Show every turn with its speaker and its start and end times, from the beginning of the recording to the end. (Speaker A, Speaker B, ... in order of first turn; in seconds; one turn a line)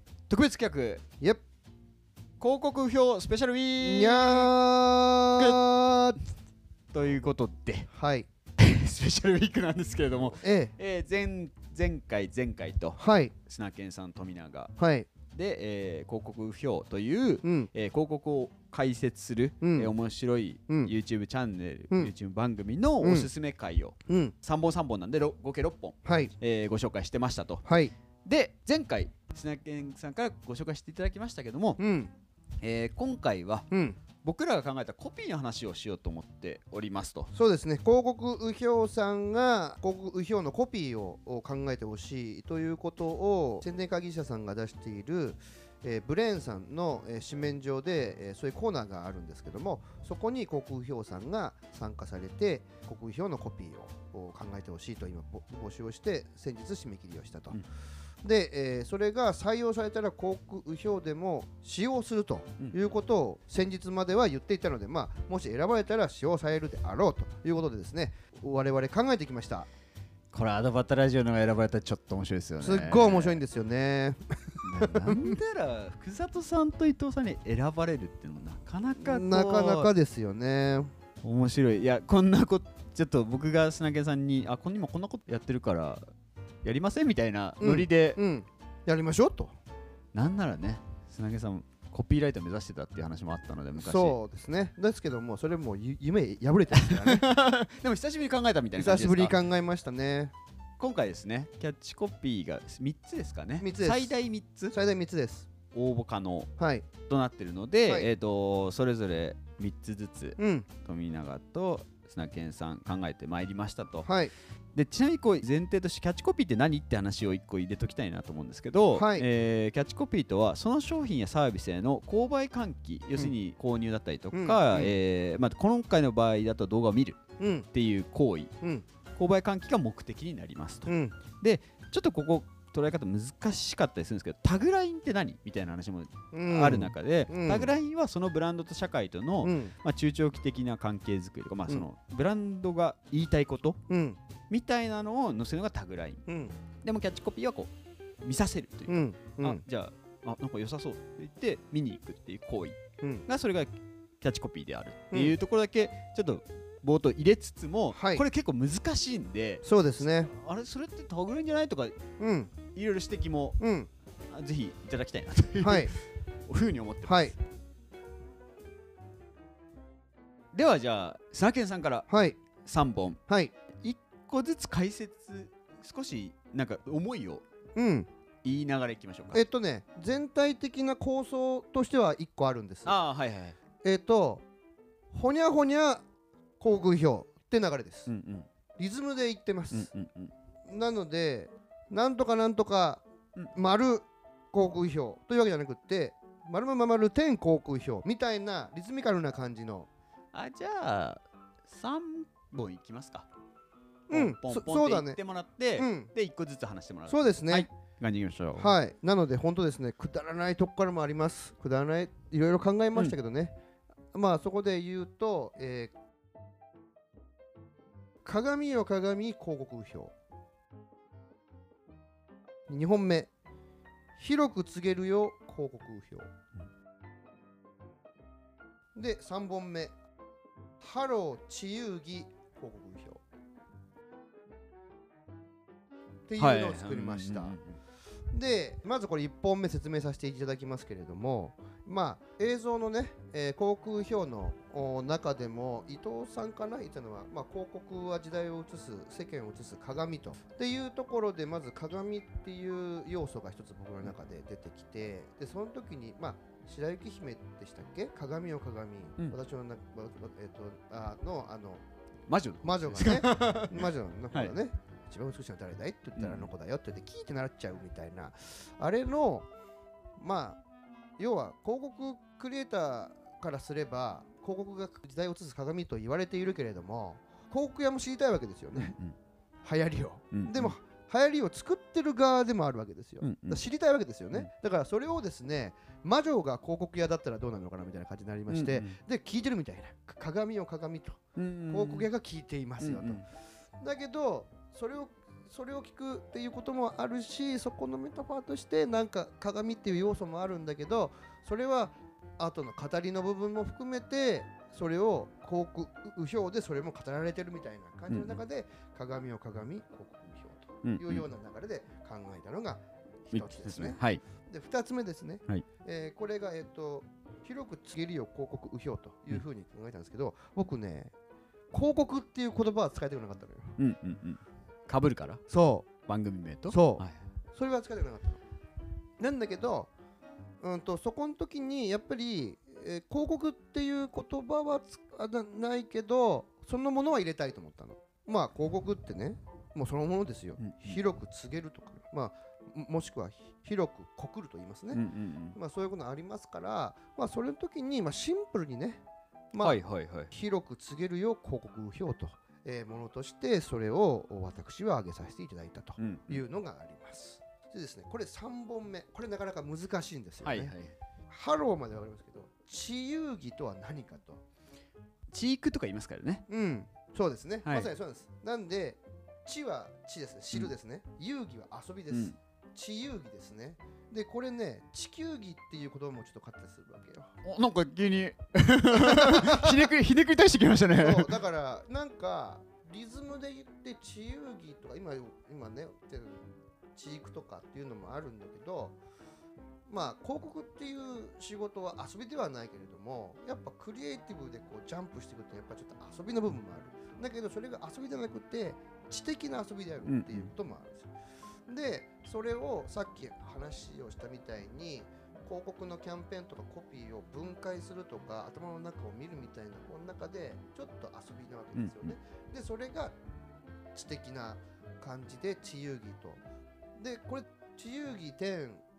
Speaker A: 0.3-1.0
Speaker A: 2.4-4.5
Speaker B: 3.8-6.2
Speaker A: 5.4-5.7
Speaker A: 6.9-7.9
Speaker B: 7.9-8.3
Speaker A: 8.6-14.7
Speaker B: 10.4-10.7
Speaker B: 13.0-13.3
Speaker B: 14.8-15.1
Speaker A: 15.3-27.7
Speaker B: 17.4-17.7
Speaker B: 19.6-19.9
Speaker B: 20.7-20.9
Speaker B: 23.0-23.3
Speaker B: 24.1-24.3
Speaker B: 26.1-26.3
Speaker B: 27.6-27.9
Speaker A: 28.2-31.8
Speaker B: 31.8-32.1
Speaker A: 32.6-33.7
Speaker B: 33.7-34.0
Speaker A: 34.2-37.3
Speaker B: 37.3-57.6
Speaker B: 58.2-69.7
Speaker A: 70.3-73.4
Speaker B: 72.6-75.4
Speaker A: 74.6-79.9
Speaker B: 79.0-80.9
Speaker A: 81.2-86.0
Speaker A: 86.6-88.2
Speaker B: 87.6-89.6
Speaker A: 90.1-94.2
Speaker B: 93.8-97.3
Speaker A: 96.8-99.4
Speaker B: 98.8-100.3
Speaker A: 100.8-104.7
Speaker B: 103.6-104.2
Speaker B: 104.7-105.5
Speaker A: 105.7-106.5
Speaker B: 106.6-106.9
Speaker A: 107.1-114.1
Speaker B: 110.4-110.7
Speaker B: 114.0-114.3
Speaker A: 114.8-127.2
Speaker B: 118.9-119.3
Speaker B: 124.3-124.9
Speaker B: 127.4-127.7
Speaker A: 127.7-128.5
Speaker A: 129.2-143.8
Speaker B: 130.9-131.2
Speaker B: 136.3-137.7
Speaker B: 139.4-139.8
Speaker B: 143.9-144.2
Speaker A: 144.5-146.2
Speaker B: 146.3-146.6
Speaker A: 146.8-147.7
Speaker A: 148.2-153.7
Speaker B: 148.9-149.6
Speaker A: 154.2-162.0
Speaker B: 155.1-155.4
Speaker B: 157.9-158.2
Speaker B: 159.6-160.3
Speaker B: 162.2-162.6
Speaker A: 162.7-163.6
Speaker B: 163.6-163.9
Speaker A: 164.3-167.3
Speaker B: 165.6-165.9
Speaker B: 167.1-167.3
Speaker A: 170.5-172.1
Speaker B: 172.1-172.4
Speaker A: 172.6-173.2
Speaker B: 173.3-173.5
Speaker A: 173.8-177.4
Speaker B: 177.8-178.1
Speaker A: 178.4-179.4
Speaker B: 179.3-183.0
Speaker A: 182.8-183.6
Speaker B: 183.8-184.4
Speaker B: 185.1-186.0
Speaker B: 186.6-188.1
Speaker A: 188.1-188.5
Speaker B: 188.8-189.9
Speaker A: 189.7-190.3
Speaker B: 190.7-199.9
Speaker A: 200.3-203.3
Speaker B: 204.1-205.2
Speaker A: 204.1-208.7
Speaker B: 205.8-206.1
Speaker B: 207.1-207.7
Speaker B: 208.6-213.6
Speaker B: 214.1-215.9
Speaker B: 218.2-220.1
Speaker B: 222.7-223.3
Speaker B: 224.2-226.3
Speaker B: 228.9-229.9
Speaker B: 230.8-233.2
Speaker B: 236.3-237.6
Speaker A: 236.4-237.8
Speaker B: 238.3-261.8
Speaker A: 262.3-264.5
Speaker B: 262.6-269.5
Speaker A: 266.2-266.5
Speaker B: 270.2-270.6
Speaker B: 271.2-278.9
Speaker A: 278.8-279.2
Speaker B: 279.6-293.2
Speaker A: 280.3-280.8
Speaker A: 283.2-283.6
Speaker A: 288.5-289.0
Speaker A: 291.4-292.1
Speaker A: 292.8-293.2
Speaker B: 293.8-321.1
Speaker A: 308.1-308.4
Speaker A: 310.8-311.3
Speaker A: 313.3-314.2
Speaker B: 321.7-323.8
Speaker A: 323.8-325.4
Speaker B: 325.5-325.9
Speaker A: 326.0-327.2
Speaker B: 326.7-327.0
Speaker B: 327.6-328.4
Speaker B: 329.2-329.9
Speaker B: 330.6-345.0
Speaker A: 340.6-341.0
Speaker A: 344.9-345.6
Speaker B: 345.5-349.0
Speaker B: 349.5-349.8
Speaker A: 349.6-350.3
Speaker B: 350.3-360.8
Speaker A: 356.0-356.4
Speaker A: 360.4-360.9
Speaker B: 361.3-364.4
Speaker A: 365.3-366.4
Speaker B: 366.5-377.3
Speaker A: 367.6-367.9
Speaker A: 377.4-381.3
Speaker B: 378.9-379.9
Speaker B: 381.0-389.0
Speaker B: 389.9-401.1
Speaker A: 400.1-400.5
Speaker B: 401.7-413.2
Speaker A: 411.8-412.2
Speaker B: 413.9-416.4
Speaker B: 417.0-418.8